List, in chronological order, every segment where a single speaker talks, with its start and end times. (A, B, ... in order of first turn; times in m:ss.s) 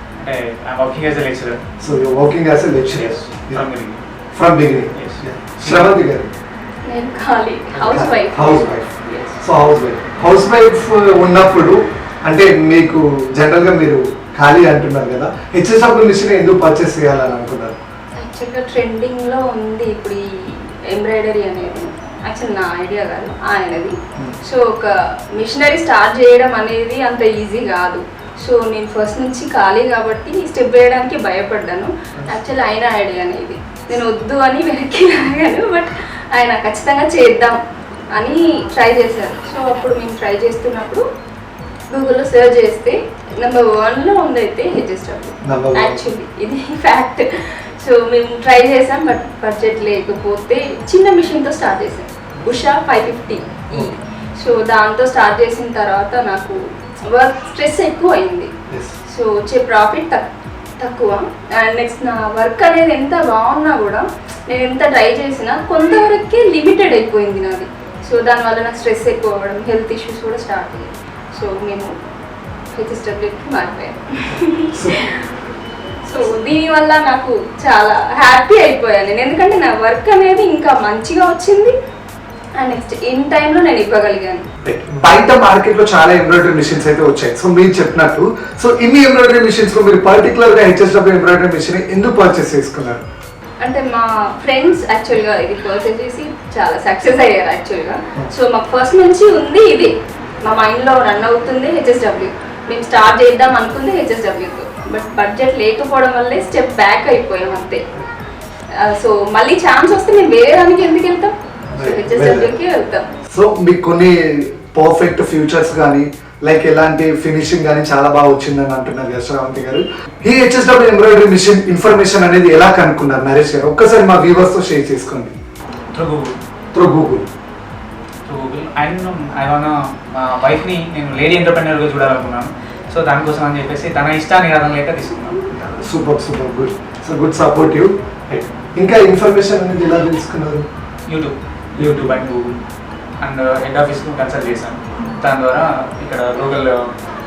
0:00.2-0:01.6 A
0:01.8-0:03.7 B
0:02.9-0:04.0 A
0:04.3-0:06.3 B
0:05.0-0:05.9 A
0:06.9-0:09.4 C
0:07.7-0:17.8 B
0:18.2-0:37.6 C
0:38.1-0:41.0 C
0:41.9-0:56.6 C
0:45.5-0:46.0 B
0:57.1-0:58.5 C
0:58.7-0:59.0 B
0:59.1-1:11.9 C
1:12.8-1:15.2 C
1:14.7-1:15.0 B
1:16.1-1:21.7 C
1:22.6-1:24.4 C
1:24.6-1:33.0 B
1:33.6-1:39.9 C
1:40.4-1:47.8 C
1:48.8-1:53.0 C
1:51.7-1:52.5 B
1:53.3-2:05.4 B
2:05.9-2:06.3 A
2:06.7-2:07.3 B
2:08.3-2:15.4 A
2:15.5-2:20.7 B
2:21.1-2:22.6 A
2:23.2-2:26.8 A